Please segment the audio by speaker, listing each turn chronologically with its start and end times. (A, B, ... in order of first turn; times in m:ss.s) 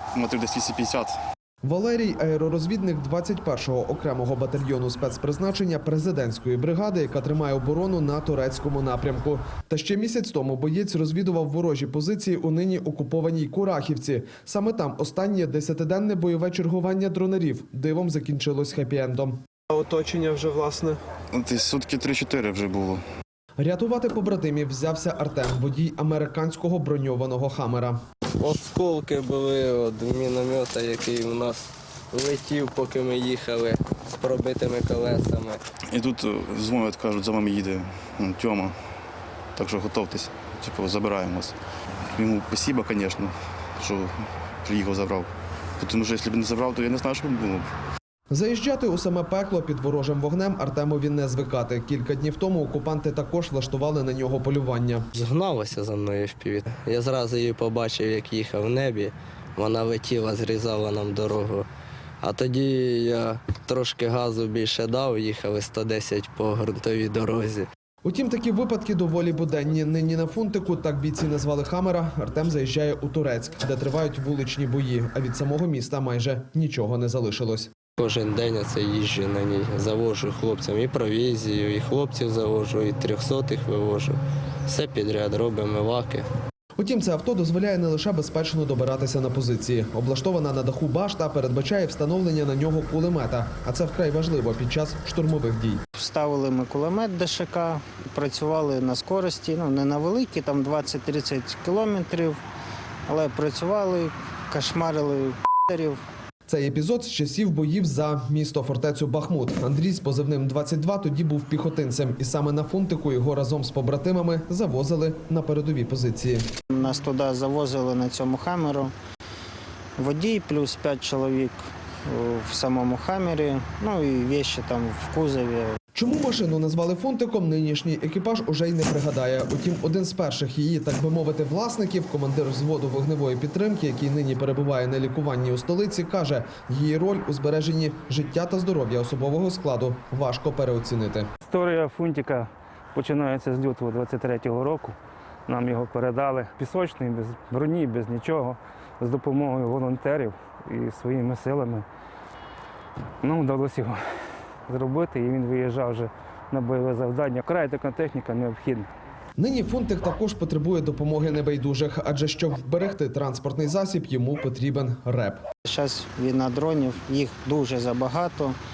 0:00.1-0:01.2 A
0:01.6-0:20.6 B
0:21.3-0:23.0 A
0:23.6-0:28.0 B
0:28.4-0:35.6 C
0:35.9-0:38.7 A
0:39.6-0:41.5 A
0:42.2-0:47.7 A
0:48.3-0:55.1 B
0:55.1-1:01.7 C
1:02.2-1:07.6 C
1:08.0-1:17.7 B
1:18.0-1:26.2 C
1:26.8-1:35.8 B
1:35.9-1:42.4 D
1:43.1-1:46.0 D
1:46.5-1:56.5 B
1:56.7-1:58.9 D
2:00.0-2:01.5 D
2:02.1-2:05.7 D
2:05.9-2:21.3 B
2:21.5-2:25.0 E
2:25.5-2:31.8 E
2:33.2-2:34.0 E
2:34.7-2:38.9 E
2:39.4-2:45.4 B
2:45.6-2:48.6 D